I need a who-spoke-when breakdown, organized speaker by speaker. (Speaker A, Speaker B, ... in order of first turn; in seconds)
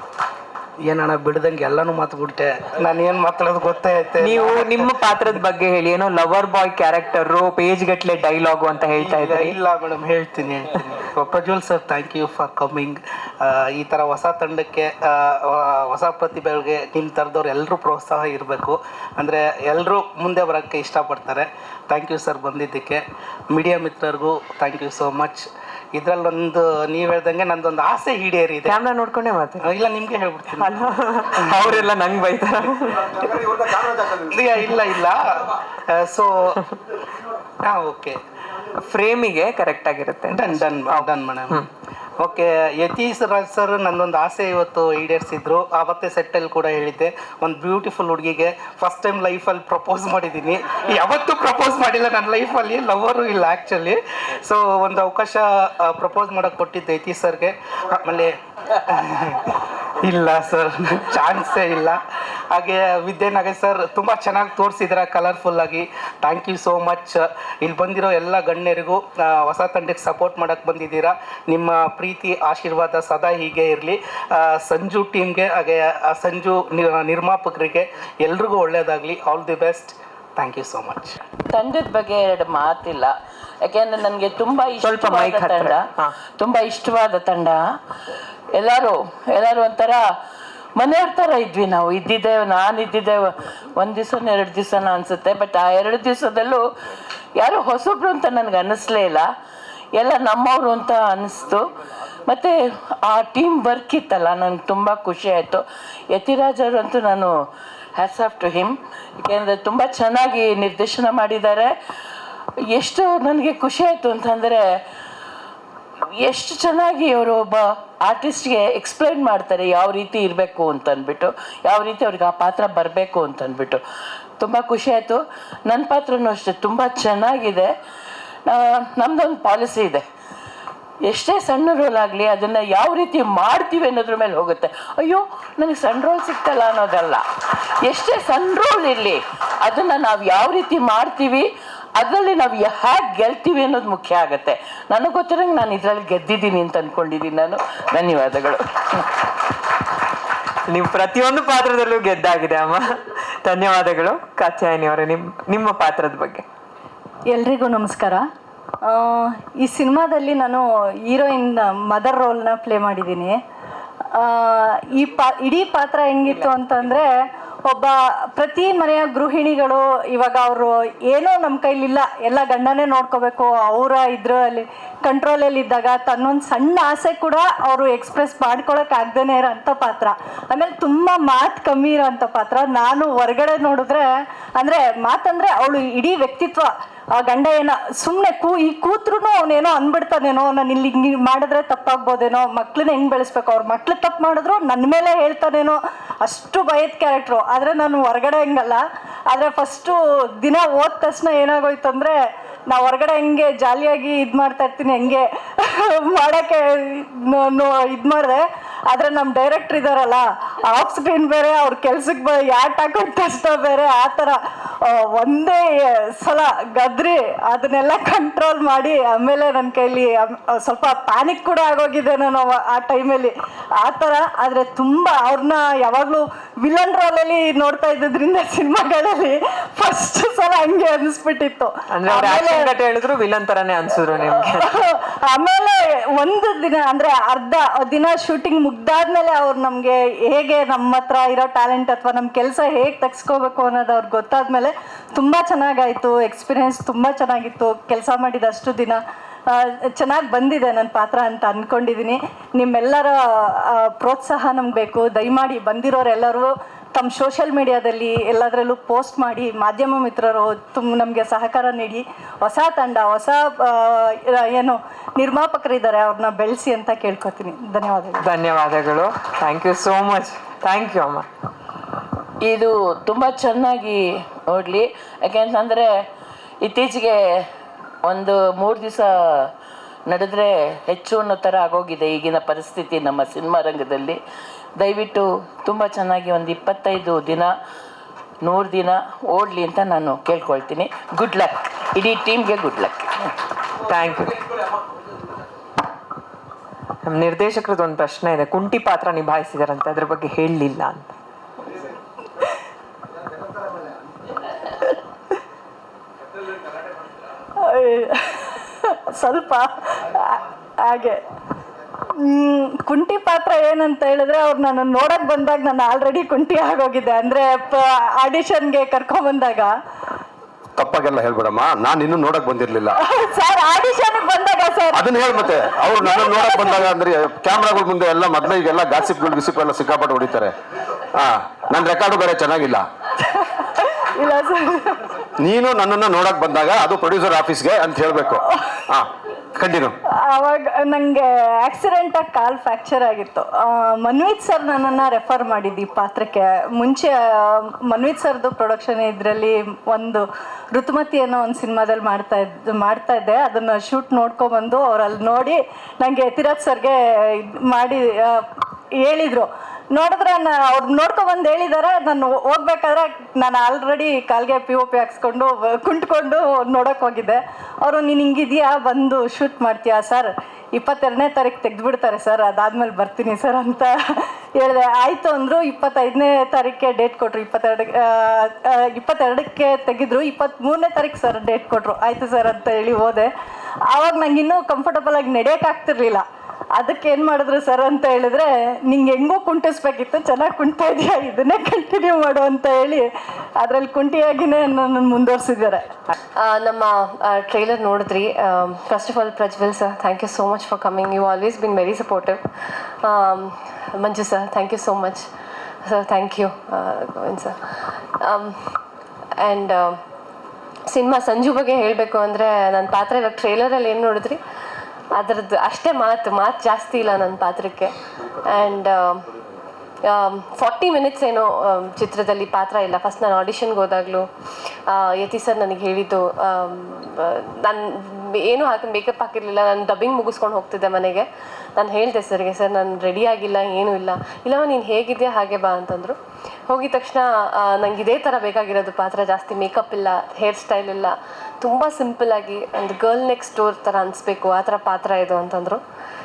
Speaker A: 0.8-5.0, 8.9-28.8, 29.6-30.8, 31.4-31.9, 34.1-36.6, 37.6-38.2, 40.3-41.6, 42.2-62.0, 62.5-81.2
Speaker B: 4.2-9.6, 28.7-29.6, 30.6-33.4, 38.8-41.7, 84.8-86.2, 150.7-156.4, 231.9-234.7, 268.2-271.3, 293.8-294.5, 297.1-301.1
Speaker C: 81.5-85.9, 86.4-87.8, 88.5-90.2, 90.8-96.7, 97.4-99.3, 100.0-101.7, 102.3-107.4, 108.0-111.8, 112.7-114.8, 116.2-123.8, 124.4-127.7, 128.5-130.0, 131.0-137.2, 137.8-149.1, 272.4-276.1, 276.6-277.5, 278.0-279.5, 280.1-284.2, 284.8-287.5, 288.4-293.1
Speaker D: 157.3-158.2, 158.8-163.4, 164.1-184.1, 184.6-202.2, 202.7-232.7, 234.3-268.3, 307.6-311.2, 312.2-319.7, 323.0-325.0, 326.0-326.9, 333.4-335.1, 340.1-358.5, 359.0-374.0, 374.6-383.3, 383.9-386.2, 386.8-393.1, 393.6-396.0
Speaker E: 320.8-323.0, 324.9-330.5, 331.1-332.9, 335.4-340.0
Speaker F: 396.4-402.4, 403.0-405.3, 405.9-408.8, 409.4-410.0, 410.9-414.4, 415.1-419.3, 420.1-424.3, 424.9-436.2, 436.7-445.8